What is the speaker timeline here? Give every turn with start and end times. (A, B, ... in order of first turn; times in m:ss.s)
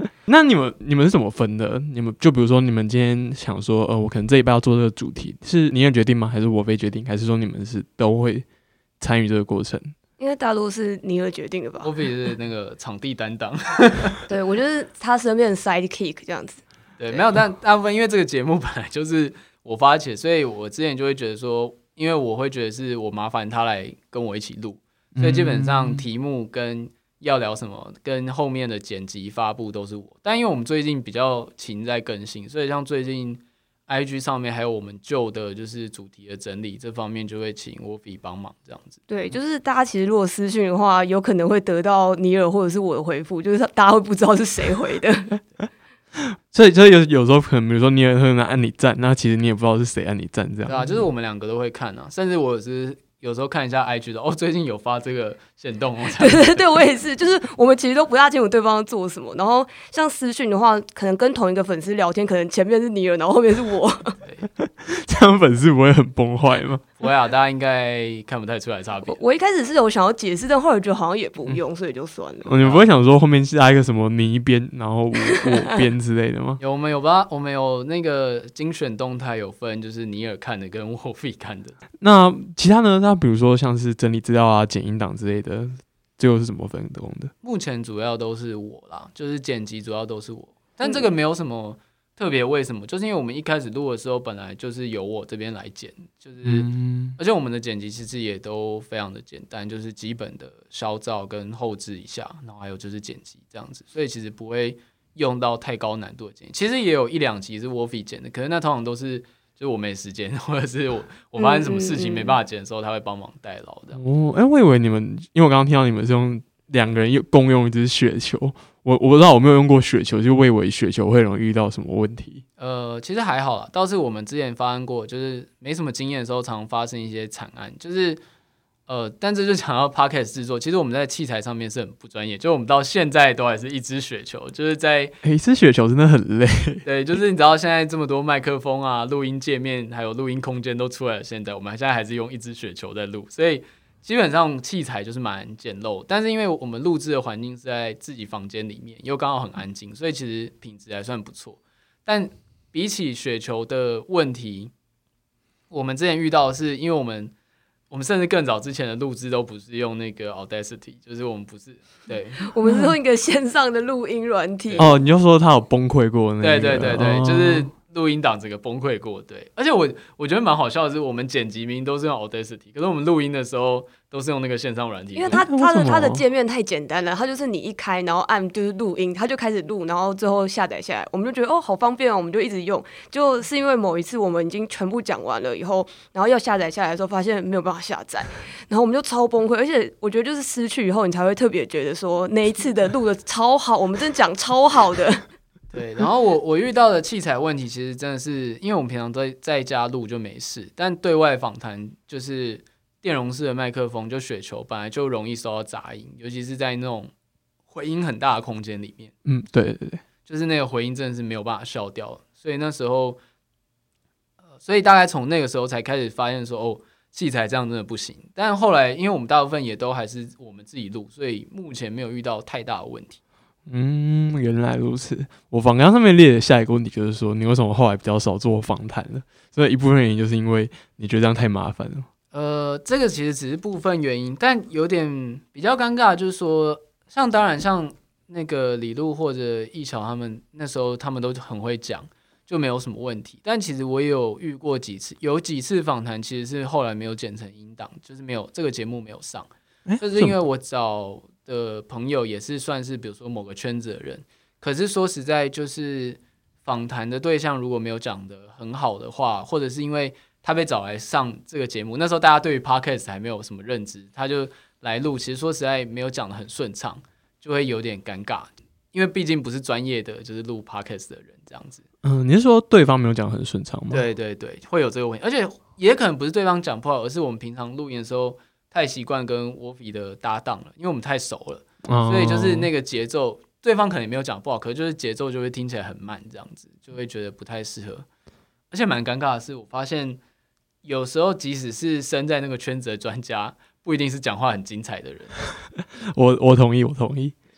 0:00.3-0:08.5 A
0:09.0-0:09.9 A
0:10.2-0:11.9 B
0:11.8-0:14.2 C
0:14.3-0:17.2 B
0:17.0-0:39.0 C
0:25.2-0:26.0 A
0:39.1-0:45.4 B
0:46.5-0:51.0 A
0:50.7-0:56.5 C
0:56.2-1:04.2 B
1:04.6-1:06.8 A
1:07.0-1:09.2 C
1:09.1-1:12.6 B
1:12.4-1:16.6 A
1:16.6-1:21.8 C
1:22.0-1:27.3 A
1:27.4-1:54.0 C
1:36.4-1:37.2 A
1:51.4-1:52.4 B
1:54.0-2:02.4 A
2:02.6-2:08.2 C
2:08.9-2:15.2 C
2:15.2-2:16.8 A
2:16.8-2:34.7 C
2:35.7-2:37.3 C
2:37.9-2:42.5 C
2:42.4-2:44.9 B
2:44.8-2:47.7 A
2:46.4-2:55.4 C
2:55.2-3:15.2 B
2:55.4-2:56.2 A
3:15.7-3:27.1 C
3:27.7-3:29.1 C
3:29.2-3:30.0 A
3:30.3-3:33.2 C
3:34.6-3:43.2 C
3:43.7-3:52.1 A
3:52.3-4:31.8 C
4:09.9-4:10.3 A
4:32.0-4:34.0 A
4:33.9-4:48.1 C
4:41.8-4:42.7 A
4:48.7-4:50.2 C
4:50.8-4:55.4 C
4:56.0-4:57.4 A